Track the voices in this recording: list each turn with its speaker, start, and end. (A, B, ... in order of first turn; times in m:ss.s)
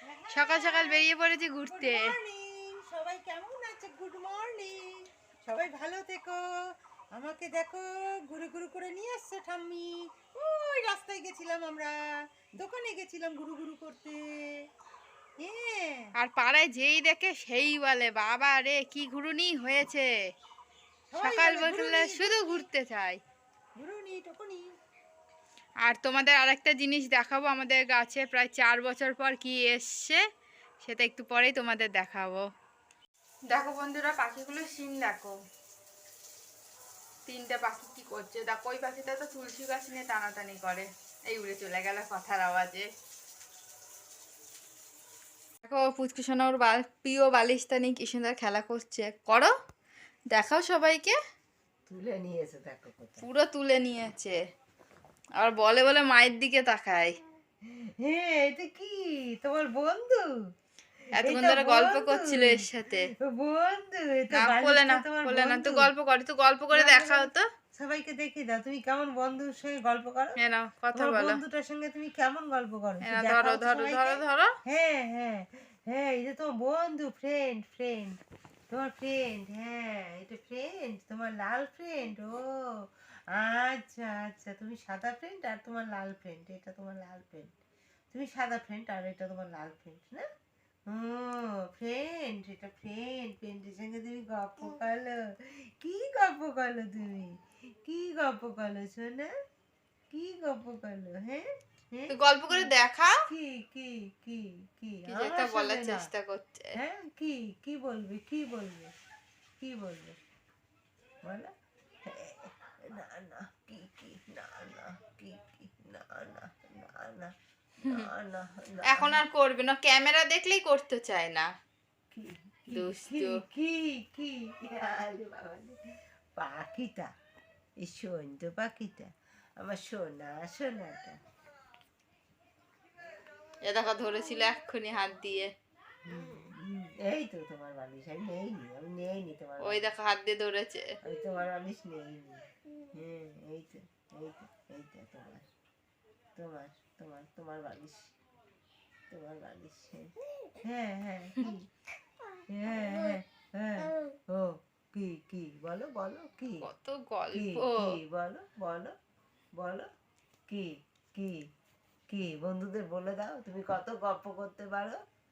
0:00.1-0:01.1 A
0:00.3-0:02.1 B
0:01.7-0:04.9 A
0:05.4-0:06.4 A
0:07.2-0:14.3 A
0:15.4-0:16.1 A
0:16.2-0:20.1 B
0:21.1-0:22.7 A
0:21.2-0:23.2 B
0:23.8-0:24.7 A
0:25.8-0:30.2 B
0:30.8-0:32.4 B
0:33.5-0:35.4 B
0:37.3-0:42.9 B
0:45.6-0:49.5 B
0:50.3-0:51.2 B
0:51.9-0:53.2 A
0:53.2-0:54.4 B
0:55.4-0:57.1 B
0:57.6-1:00.3 A
1:01.2-1:03.1 B
1:01.2-1:02.6 A
1:03.2-1:05.9 A
1:04.3-1:07.5 B
1:06.7-1:10.4 A
1:10.4-1:11.4 B
1:10.9-1:18.2 A
1:13.0-1:14.5 B
1:18.7-1:22.4 A
1:23.3-1:27.5 A
1:28.1-1:30.3 A
1:30.9-1:37.3 A
1:37.8-1:39.3 A
1:40.1-1:42.7 A
1:42.1-1:43.2 B
1:43.3-1:46.1 A
1:45.1-1:46.8 B
1:46.8-1:48.9 A
1:49.6-1:50.2 A
1:51.2-1:51.5 A
1:52.0-1:57.3 A
1:57.8-1:58.1 B
1:57.8-1:59.2 A
1:58.9-2:01.5 B
2:02.1-2:05.8 A
2:02.7-2:03.4 B
2:06.4-2:07.1 A
2:07.8-2:11.2 A
2:13.6-2:15.5 B
2:16.1-2:19.9 A
2:19.6-2:20.9 B
2:21.0-2:25.5 A
2:26.4-2:28.1 A
2:29.1-2:30.1 A
2:30.6-2:31.7 A
2:32.5-2:36.7 A
2:36.6-2:38.0 B
2:37.3-2:39.0 A
2:39.6-2:39.9 A
2:40.5-2:41.4 A
2:42.1-2:45.0 A